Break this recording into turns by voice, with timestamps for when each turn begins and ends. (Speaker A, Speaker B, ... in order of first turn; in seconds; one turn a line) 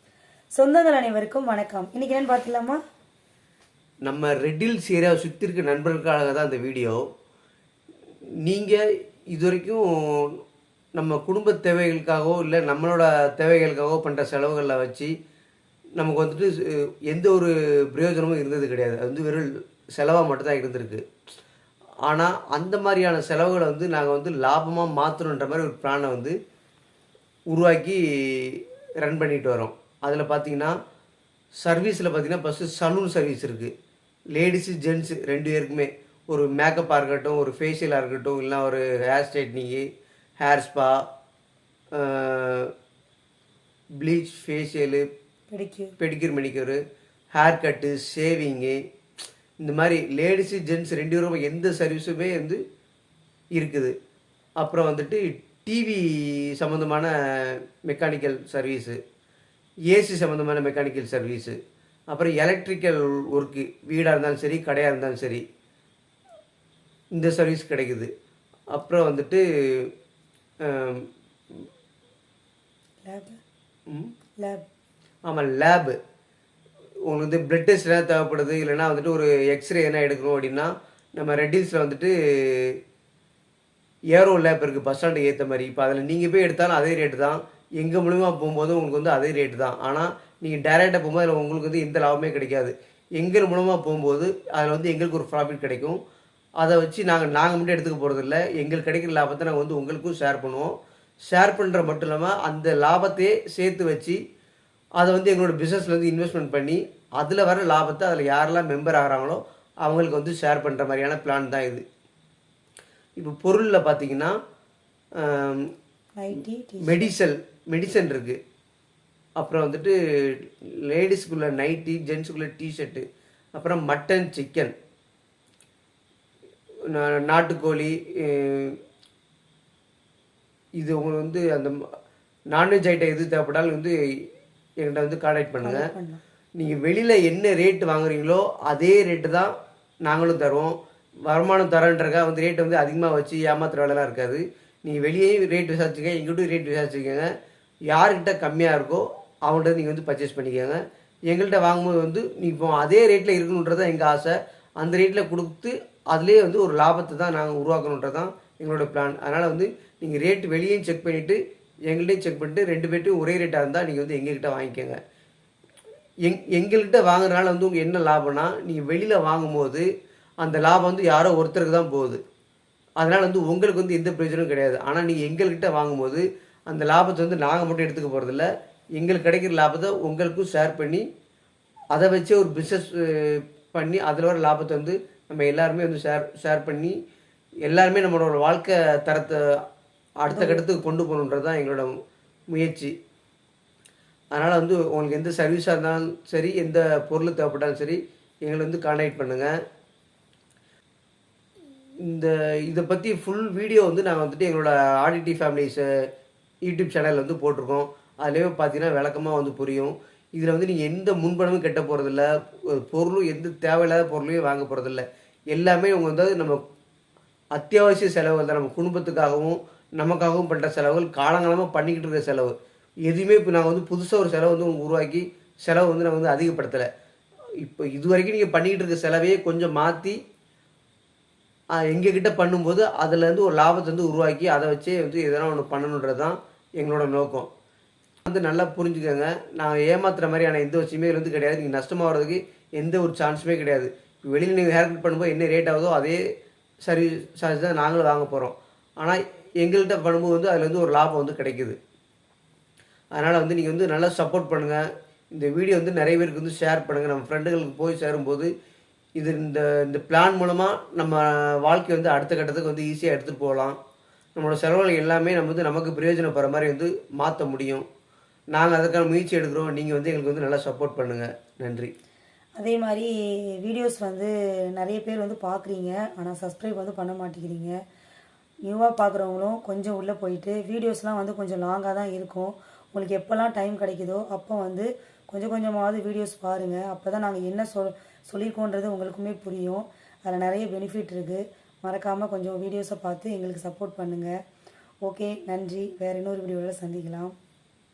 Speaker A: 0.6-2.8
Speaker B: 4.0-7.0
Speaker B: 8.4-8.8
Speaker B: 9.3-10.4
Speaker B: 10.9-15.1
Speaker B: 16.0-21.0
Speaker B: 22.1-26.3
Speaker B: 27.5-30.7
Speaker B: 31.6-33.7
Speaker B: 34.3-39.9
Speaker B: 40.4-41.0
Speaker B: 41.9-42.7
Speaker B: 44.0-45.0
Speaker A: 45.5-45.9
Speaker B: 46.0-46.8
Speaker B: 47.3-48.8
Speaker B: 49.6-52.6
Speaker B: 53.5-53.9
Speaker B: 54.6-59.0
Speaker B: 59.9-61.6
Speaker B: 62.1-65.4
Speaker B: 67.1-68.1
Speaker B: 68.7-69.9
Speaker B: 70.6-71.6
Speaker A: 73.0-73.4
Speaker B: 73.9-74.1
Speaker A: 74.4-74.6
Speaker B: 75.3-76.0
Speaker B: 77.1-82.8
Speaker B: 84.1-96.0
Speaker B: 96.6-100.7
Speaker B: 101.3-104.2
Speaker B: 105.0-111.8
Speaker B: 113.2-114.3
Speaker B: 115.2-115.7
Speaker A: 116.2-117.1
Speaker B: 116.8-118.4
Speaker B: 119.4-123.0
Speaker B: 123.6-124.7
Speaker B: 126.9-128.8
Speaker B: 130.8-131.8
Speaker B: 132.5-133.9
Speaker B: 134.8-135.8
Speaker A: 135.6-136.2
Speaker B: 136.6-139.5
Speaker B: 140.0-140.7
Speaker B: 141.3-147.3
Speaker B: 147.9-165.0
Speaker B: 166.2-169.8
Speaker B: 170.4-172.2
Speaker B: 173.0-181.0
Speaker B: 181.9-186.9
Speaker B: 187.6-189.6
Speaker B: 190.2-191.9
Speaker A: 190.3-190.8
Speaker B: 192.5-192.9
Speaker B: 194.3-199.5
Speaker B: 202.0-205.8
Speaker B: 206.6-216.6
Speaker B: 217.5-222.5
Speaker B: 223.1-226.9
Speaker B: 227.6-230.2
Speaker B: 231.8-237.5
Speaker B: 238.2-246.2
Speaker B: 246.8-251.8
Speaker B: 253.2-258.5
Speaker B: 259.2-263.8
Speaker B: 264.4-267.9
Speaker B: 268.5-271.9
Speaker A: 272.6-277.8
Speaker A: 278.7-294.3
Speaker A: 295.0-297.3